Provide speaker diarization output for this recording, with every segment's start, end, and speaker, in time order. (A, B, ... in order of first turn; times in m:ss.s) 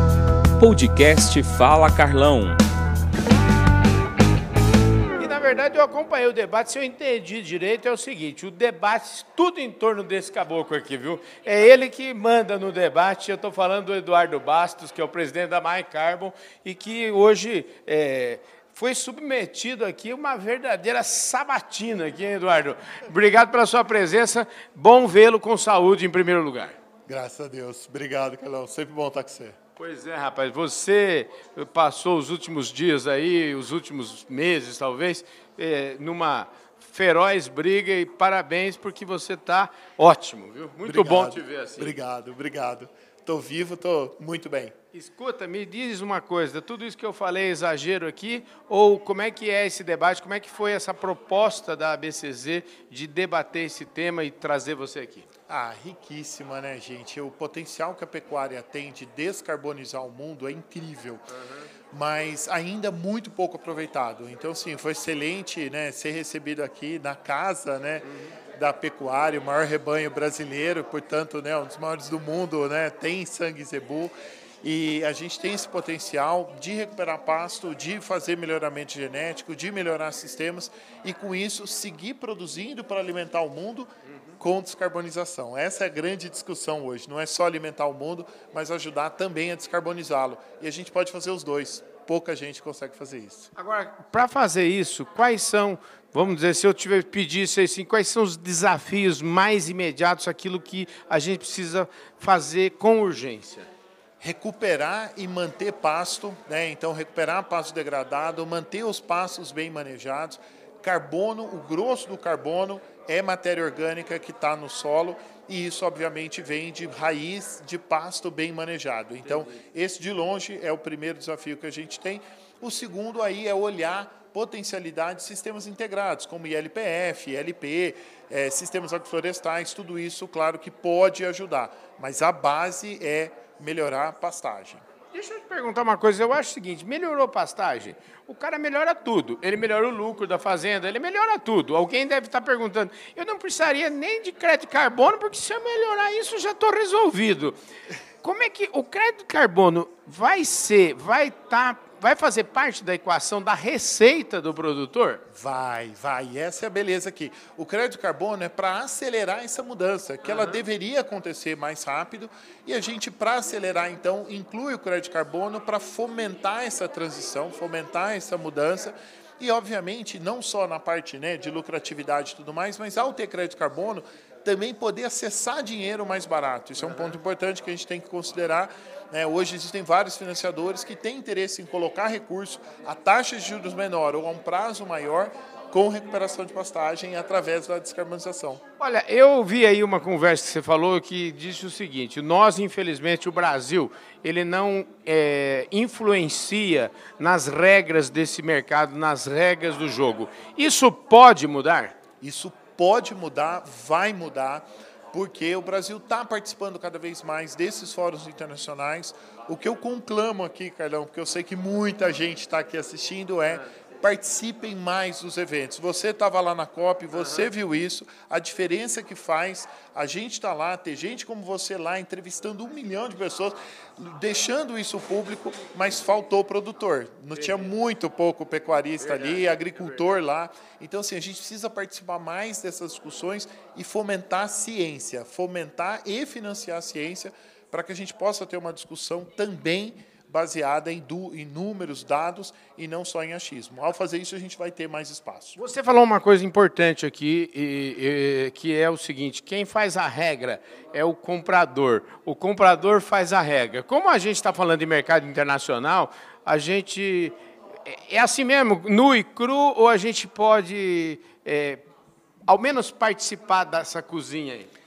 0:00.6-0:02.6 A
0:05.2-0:26.8 B
0:27.1-0:29.6 C
0:29.8-0:41.9 B
0:40.8-0:44.7 C
0:44.9-0:55.3 B
0:55.5-1:01.3 C
1:01.4-1:01.7 B
1:01.9-1:33.5 C
1:08.1-1:08.3 B
1:33.6-1:43.7 B
1:44.2-2:14.8 C
2:15.1-2:27.5 B
2:28.2-2:35.2 B
2:35.3-3:08.6 C
2:40.2-2:40.6 B
3:08.8-3:22.0 B
3:22.2-4:05.6 C
3:37.2-3:37.4 B
3:49.0-3:49.4 B
4:05.6-4:17.3 B
4:17.8-4:21.8 B
4:22.5-4:24.7 B